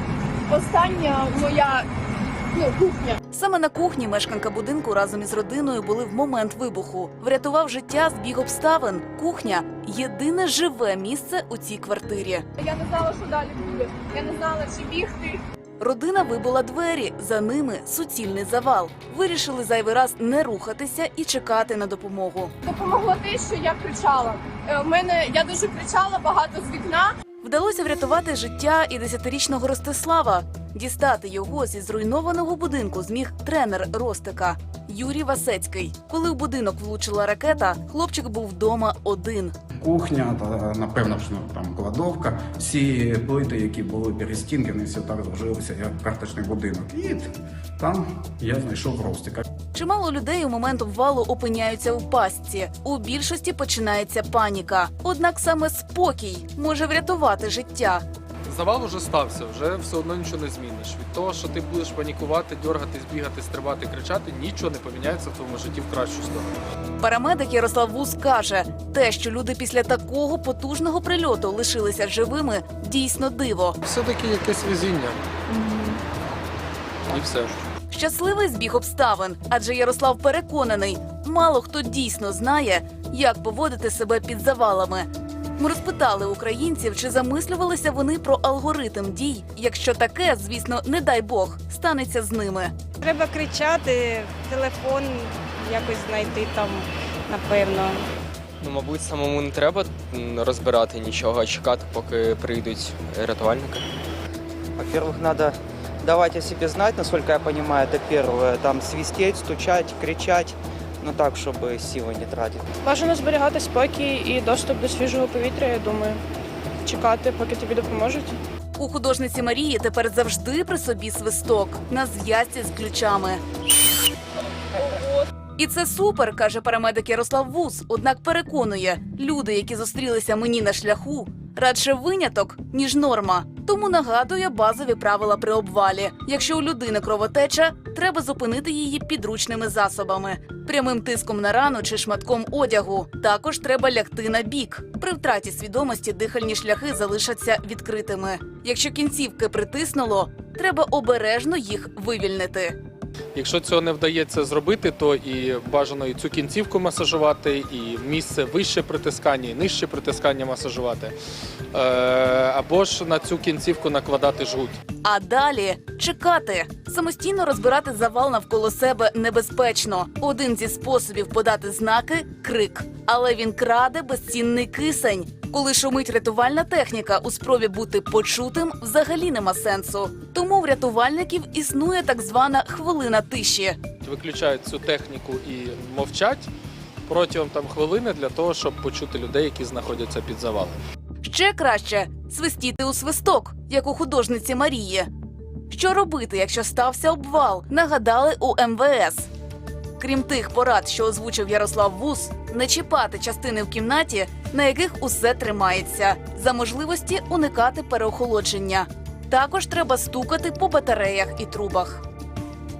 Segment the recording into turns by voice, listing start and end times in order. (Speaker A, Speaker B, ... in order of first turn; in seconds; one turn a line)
Speaker A: 0.5-1.9
Speaker A: 2.5-3.2
Speaker B: 3.3-12.4
Speaker A: 12.6-15.4
Speaker B: 15.8-22.5
Speaker A: 22.6-27.1
Speaker B: 27.4-39.5
Speaker C: 39.8-49.4
Speaker B: 49.7-58.0
Speaker D: 58.5-66.5
Speaker B: 67.0-73.8
Speaker D: 73.8-75.2
Speaker D: 77.1-77.5
Speaker B: 77.9-85.1
Speaker B: 85.6-92.7
Speaker E: 93.0-98.0
Speaker F: 98.6-103.8
Speaker G: 104.8-112.7
Speaker H: 112.8-116.2
Speaker H: 116.8-118.4
Speaker B: 118.8-123.4
Speaker A: 124.8-125.2
Speaker B: 125.6-152.8
Speaker D: 153.3-161.1
Speaker D: 161.7-164.8
Speaker B: 165.0-183.8
Speaker D: 184.0-186.5
Speaker D: 187.1-190.8
Speaker B: 191.2-195.1
Speaker B: 195.7-199.3
Speaker B: 200.0-212.0